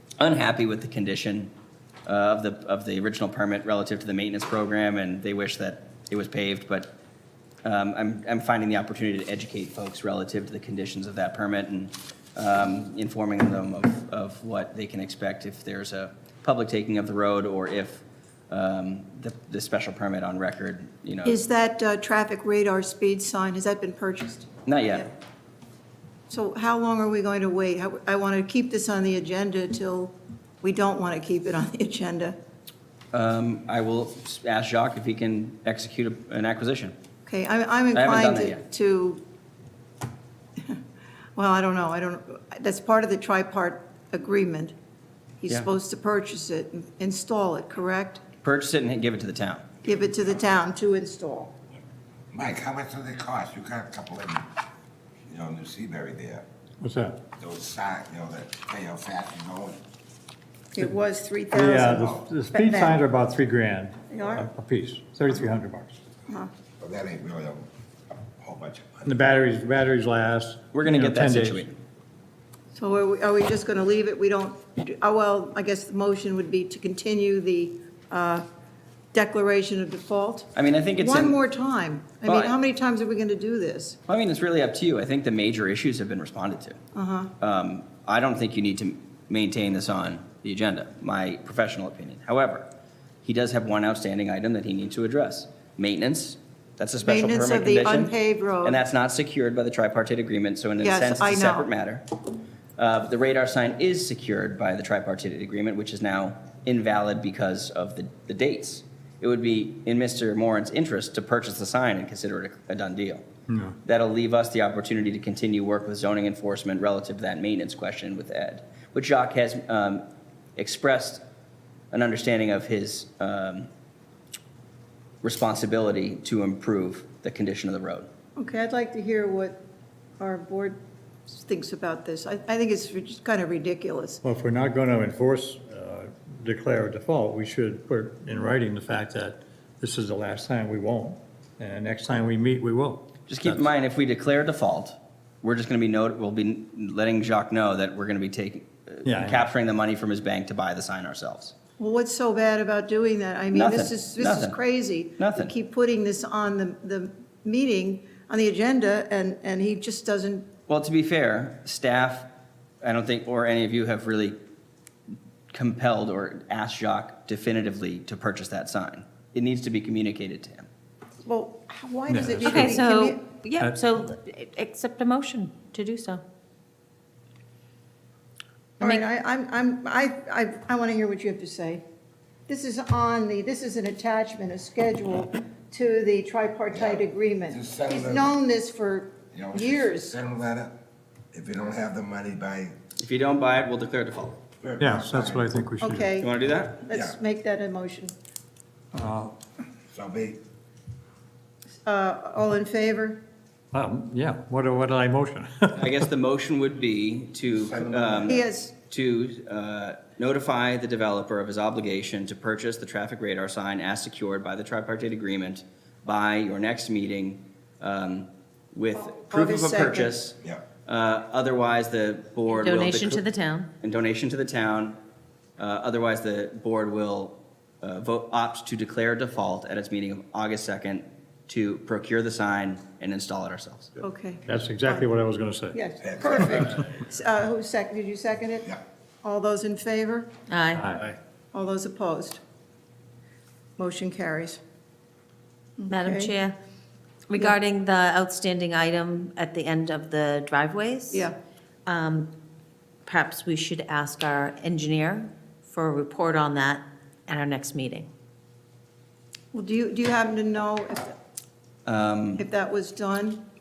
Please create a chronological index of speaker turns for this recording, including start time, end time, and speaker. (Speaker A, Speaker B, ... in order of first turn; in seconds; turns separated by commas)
Speaker A: 0.2-1.5, Speaker A: 2.1-6.9, Speaker A: 7.6-21.4, Speaker B: 21.2-25.0, Speaker A: 24.7-25.1, Speaker B: 26.3-32.4, Speaker A: 33.1-37.0, Speaker B: 37.3-39.2, Speaker A: 37.9-38.6, Speaker B: 41.4-44.7, Speaker B: 45.4-48.2, Speaker A: 48.4-49.7, Speaker B: 49.8-51.5, Speaker C: 52.3-54.5, Speaker C: 55.3-56.5, Speaker D: 56.8-57.2, Speaker C: 57.4-59.8, Speaker B: 60.8-63.0, Speaker D: 61.5-66.0, Speaker C: 61.8-62.3, Speaker B: 64.1-64.4, Speaker C: 66.8-69.2, Speaker D: 69.1-71.7, Speaker A: 70.7-71.8, Speaker B: 72.7-78.4, Speaker B: 79.1-84.0, Speaker A: 80.5-81.4, Speaker A: 82.2-82.5, Speaker A: 84.1-86.8, Speaker B: 87.0-87.3, Speaker A: 87.4-92.7, Speaker A: 93.2-98.1, Speaker B: 97.0-98.8, Speaker A: 98.6-102.0, Speaker B: 100.8-101.7, Speaker A: 102.8-113.2, Speaker D: 113.5-113.8, Speaker A: 113.8-120.0, Speaker A: 120.6-121.2, Speaker A: 121.9-123.7, Speaker A: 125.2-128.1, Speaker B: 128.4-129.6, Speaker B: 130.2-130.8, Speaker B: 131.3-134.2, Speaker D: 134.2-143.7, Speaker A: 143.3-151.5, Speaker D: 149.1-149.4, Speaker B: 151.8-160.5, Speaker A: 153.5-154.6, Speaker A: 155.2-155.5, Speaker A: 160.7-162.3, Speaker A: 162.8-164.4, Speaker A: 165.5-170.7, Speaker B: 171.2-173.2, Speaker D: 172.1-172.8, Speaker E: 172.4-176.2, Speaker D: 173.6-174.1, Speaker B: 178.8-181.8, Speaker B: 182.5-190.1, Speaker C: 186.7-188.3, Speaker C: 189.3-190.7, Speaker C: 191.3-192.8, Speaker A: 193.0-194.4, Speaker C: 194.6-195.5, Speaker D: 194.8-196.1, Speaker B: 195.8-198.1, Speaker A: 196.2-196.8, Speaker D: 198.9-199.3, Speaker C: 199.9-200.4, Speaker B: 201.8-203.2, Speaker D: 203.7-206.1, Speaker A: 205.8-223.2, Speaker C: 207.5-208.4, Speaker B: 208.2-208.7, Speaker B: 218.9-220.1, Speaker E: 222.5-223.7, Speaker A: 223.8-225.0, Speaker A: 225.6-233.9, Speaker B: 234.0-235.1, Speaker D: 234.5-235.8, Speaker B: 235.7-238.7, Speaker C: 236.0-236.8, Speaker B: 239.2-240.3, Speaker E: 240.5-240.8, Speaker D: 240.8-241.2, Speaker B: 241.5-242.4, Speaker B: 243.8-244.6, Speaker B: 245.8-246.3, Speaker E: 245.9-246.6, Speaker E: 247.3-251.3, Speaker E: 251.9-252.3, Speaker E: 253.1-258.1, Speaker B: 259.5-261.1, Speaker A: 261.9-262.4, Speaker B: 262.4-263.4